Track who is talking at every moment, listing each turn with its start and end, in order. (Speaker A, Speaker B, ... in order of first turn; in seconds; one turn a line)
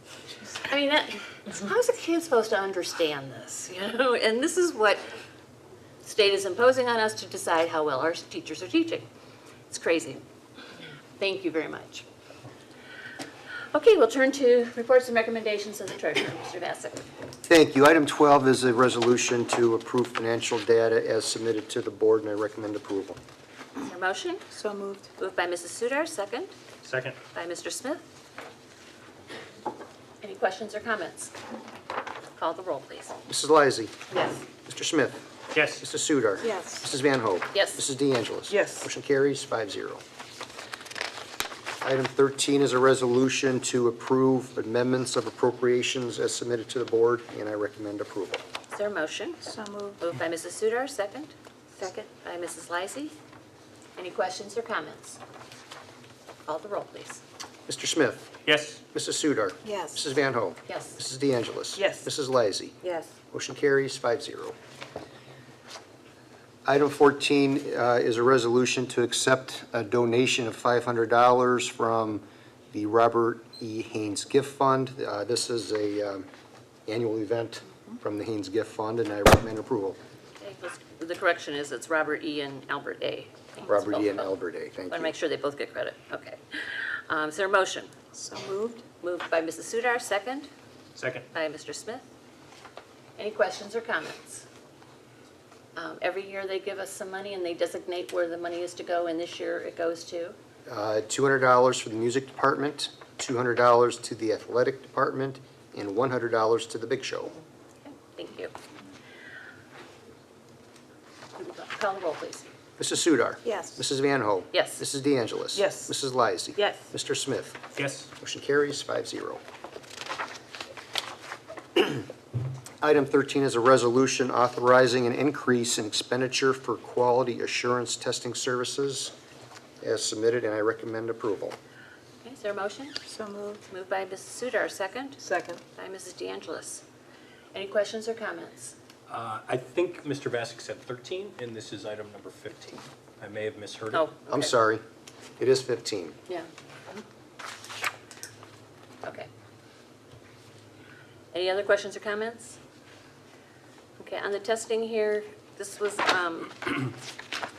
Speaker A: 0.5-5.1
Speaker A: 6.0-9.1
Speaker A: 9.7-10.2
Speaker A: 11.2-12.1
Speaker A: 13.7-17.0
Speaker B: 17.5-23.2
Speaker A: 23.8-24.5
Speaker C: 24.5-25.1
Speaker A: 25.2-26.5
Speaker D: 26.8-27.2
Speaker A: 27.3-28.0
Speaker A: 30.2-31.3
Speaker A: 32.4-33.1
Speaker B: 33.3-34.0
Speaker C: 34.1-34.4
Speaker B: 34.6-35.3
Speaker D: 35.5-35.8
Speaker B: 35.8-40.0
Speaker C: 36.4-36.8
Speaker A: 37.5-37.8
Speaker C: 38.5-38.9
Speaker B: 41.8-48.4
Speaker A: 48.7-49.5
Speaker C: 49.4-50.0
Speaker A: 50.0-53.1
Speaker A: 54.0-55.2
Speaker A: 56.5-57.2
Speaker B: 57.7-58.3
Speaker D: 58.5-58.8
Speaker B: 58.9-62.8
Speaker C: 59.6-60.0
Speaker A: 60.7-61.0
Speaker C: 61.8-62.1
Speaker B: 63.3-64.5
Speaker B: 66.7-76.3
Speaker B: 76.9-80.0
Speaker A: 80.4-84.3
Speaker B: 83.7-85.2
Speaker A: 84.9-87.9
Speaker C: 88.2-88.8
Speaker A: 89.0-90.5
Speaker D: 91.0-91.3
Speaker A: 91.3-92.1
Speaker A: 93.2-94.5
Speaker A: 95.8-100.4
Speaker B: 100.7-107.4
Speaker A: 107.8-108.5
Speaker A: 111.4-112.5
Speaker B: 112.8-119.4
Speaker C: 113.5-113.8
Speaker A: 114.5-114.8
Speaker C: 115.5-115.9
Speaker C: 116.6-116.9
Speaker D: 117.8-118.1
Speaker B: 121.8-122.0
Speaker B: 122.8-129.1
Speaker B: 129.8-131.6
Speaker A: 132.2-133.0
Speaker C: 133.1-133.6
Speaker A: 133.7-135.2
Speaker C: 135.2-135.6
Speaker A: 135.7-136.8
Speaker A: 137.5-138.8
Speaker D: 139.1-144.1
Speaker A: 143.9-144.5
Speaker B: 144.3-144.8
Speaker B: 145.4-146.2
Speaker A: 146.3-147.0
Speaker A: 149.0-149.3
Speaker A: 151.3-152.6
Speaker A: 154.0-156.9